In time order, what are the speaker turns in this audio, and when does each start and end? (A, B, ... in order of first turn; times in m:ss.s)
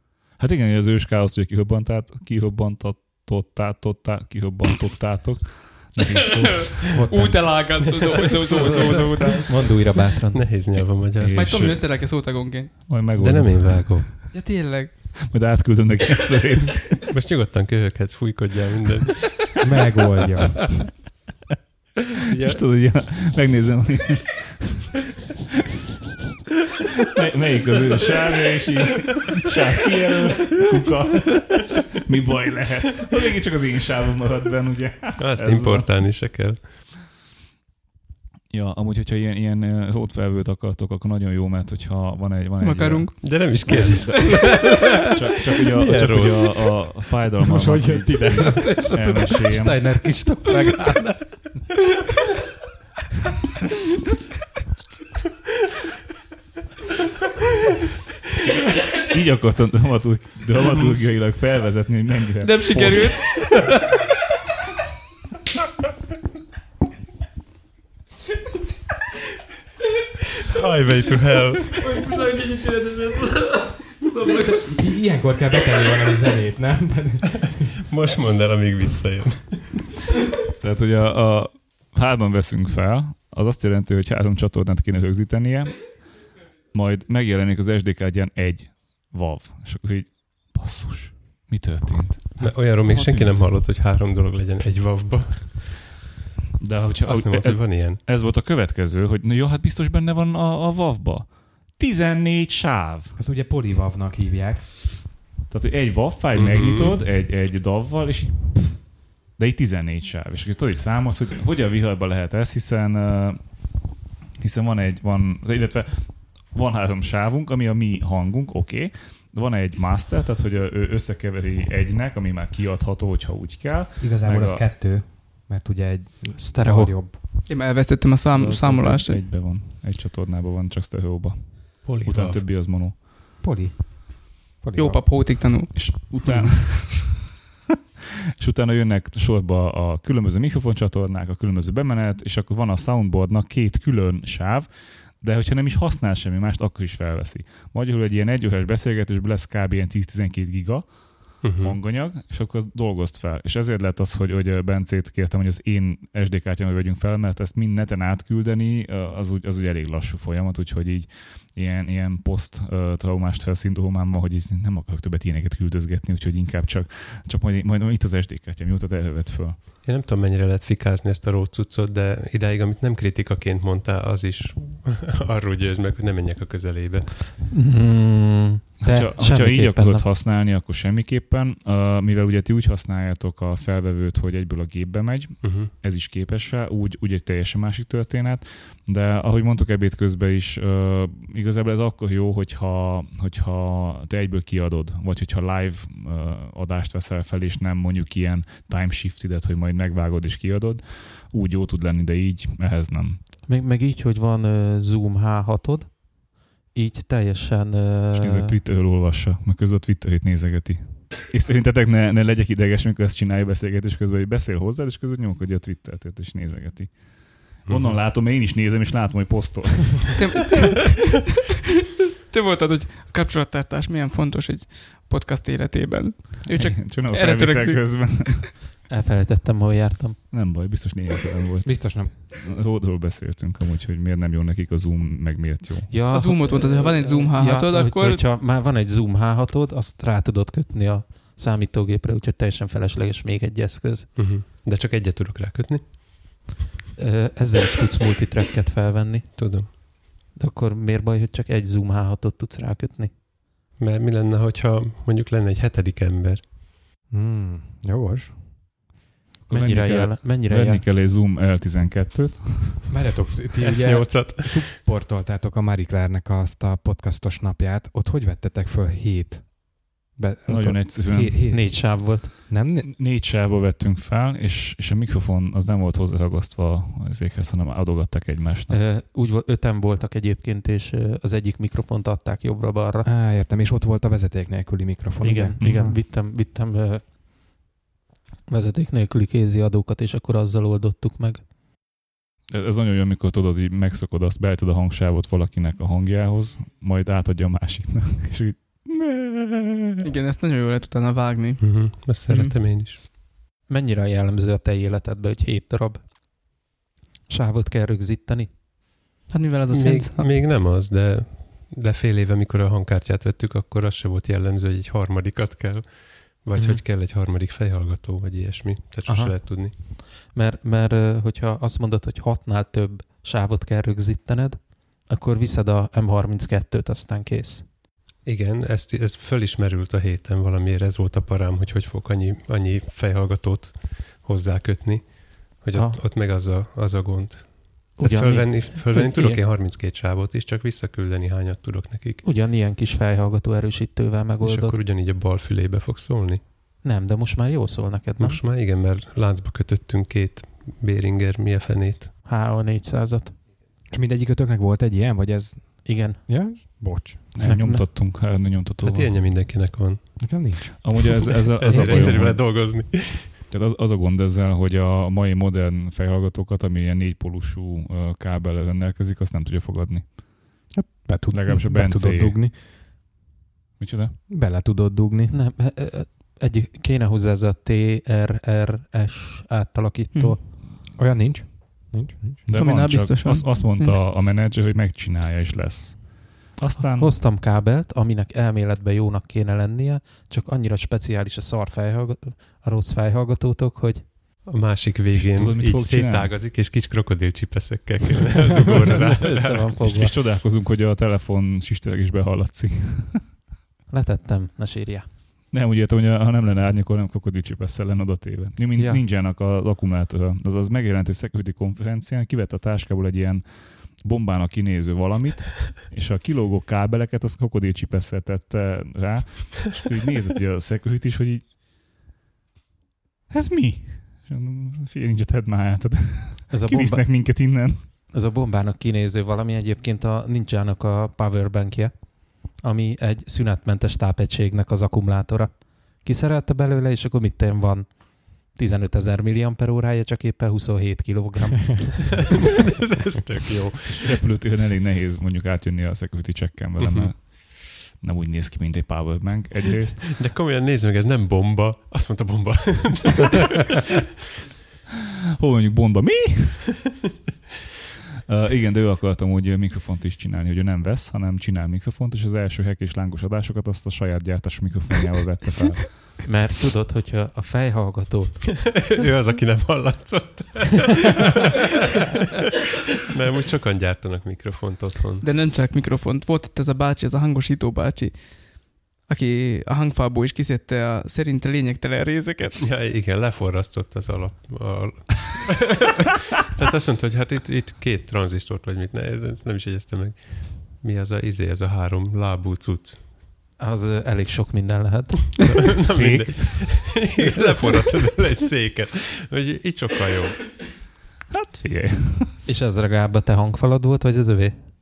0:00.4-0:07.0 A
0:06.2-0:09.8 B
0:06.9-0:07.6 C
0:08.5-0:09.3 D
0:09.5-0:10.5 C
0:10.3-0:11.8 D
0:11.2-0:12.2 A
0:11.3-0:12.9 B
0:12.9-0:14.3 A
0:13.1-0:14.1 D
0:14.3-0:15.1 B
0:15.2-0:17.1 A
0:17.1-0:19.3 D
0:19.6-0:20.8 E
0:22.4-0:24.9 A
0:27.0-0:36.1 A
0:35.2-0:36.6 D
0:38.5-0:50.0 A
0:42.6-0:44.6 B
0:43.2-0:45.1 D
0:45.7-0:46.7 D
0:47.4-0:48.8 E
0:48.4-0:51.6 C
0:58.4-1:03.5 A
1:02.4-1:03.6 B
1:10.5-1:11.9 D
1:11.8-1:14.7 B
1:14.4-1:17.7 E
1:17.8-1:19.8 D
1:20.6-1:33.5 A
1:32.4-1:35.8 D
1:36.6-1:43.2 A
1:37.0-1:38.0 D
1:43.2-1:45.0 E
1:45.5-1:53.7 A
1:46.3-1:47.0 D
1:54.4-2:04.6 A
2:04.0-2:07.2 E
2:06.4-2:07.0 C
2:07.5-2:09.2 B
2:08.3-2:13.0 A
2:11.8-2:12.4 D
2:13.4-2:15.0 E
2:14.8-2:16.0 B
2:15.7-2:17.2 A
2:18.4-2:49.6 A
2:31.4-2:31.8 D
2:49.8-2:57.3 D
2:57.4-3:00.0 C
2:58.8-3:23.2 A
3:05.4-3:05.7 D
3:23.5-3:28.6 C
3:28.1-3:40.2 A
3:37.6-3:38.0 D
3:40.1-3:41.3 B
3:42.3-3:48.3 B
3:46.5-3:48.6 A
3:48.9-3:50.2 C
3:50.3-3:55.9 A
3:51.6-3:52.1 E
3:55.9-4:04.1 C
3:56.1-3:58.2 B
4:04.1-4:06.4 D
4:07.0-4:09.8 C
4:09.3-4:09.7 D
4:10.3-4:13.1 C
4:13.8-4:16.4 D
4:17.1-4:18.7 E
4:19.5-4:22.9 A
4:19.5-4:20.8 C
4:22.9-4:32.9 E
4:23.6-4:24.7 D
4:30.5-4:31.5 A
4:31.5-4:32.3 C
4:32.8-4:38.8 A
4:38.7-4:43.1 C
4:43.0-4:46.0 E
4:45.2-4:47.0 C
4:45.6-4:45.9 A
4:48.5-4:51.4 C
4:52.5-5:00.0 A
5:00.0-5:02.6 B
5:01.6-5:03.0 D
5:03.7-5:06.0 C
5:07.3-5:08.5 C
5:09.3-5:10.3 B
5:09.7-5:19.7 D
5:19.1-5:27.6 C
5:28.2-5:42.2 D
5:35.7-5:36.0 C
5:38.0-5:39.4 C
5:42.2-5:44.8 C
5:44.4-5:46.4 D
5:46.8-5:48.4 C
5:48.2-5:52.2 D
5:52.2-5:53.3 C
5:53.9-5:57.4 E
5:55.8-5:56.8 C
5:57.3-5:59.3 A
5:57.4-5:58.0 C
5:58.8-6:00.4 D
6:00.2-6:01.2 E
6:00.8-6:10.2 A
6:01.6-6:03.4 D
6:10.7-6:12.5 E
6:11.3-6:12.4 A
6:13.8-6:14.2 A
6:14.3-6:15.3 E
6:15.3-6:20.4 C
6:20.8-6:22.4 E
6:22.4-6:27.1 A
6:22.5-6:24.0 B
6:27.0-6:34.1 C
6:34.4-6:39.7 D
6:35.2-6:36.3 A
6:38.6-6:40.1 C
6:39.8-6:43.2 A
6:43.9-6:45.0 C
6:45.5-7:01.5 A
6:48.8-6:49.0 C
7:03.3-7:07.8 A
7:06.5-7:07.0 C
7:08.1-7:11.9 C
7:12.5-7:17.9 C
7:18.4-7:22.2 C
7:22.1-7:24.2 D
7:23.9-7:30.2 A
7:26.8-7:27.1 D
7:30.0-7:33.8 D
7:35.4-7:36.8 A
7:38.3-7:46.0 A
7:46.2-7:48.4 C
7:48.5-7:51.6 D
7:53.1-7:55.3 D
7:55.2-8:02.6 B
8:02.6-8:13.1 D
8:13.6-8:15.7 C
8:15.3-8:20.6 D
8:15.9-8:17.0 A
8:21.3-8:22.5 A
8:22.4-8:24.5 C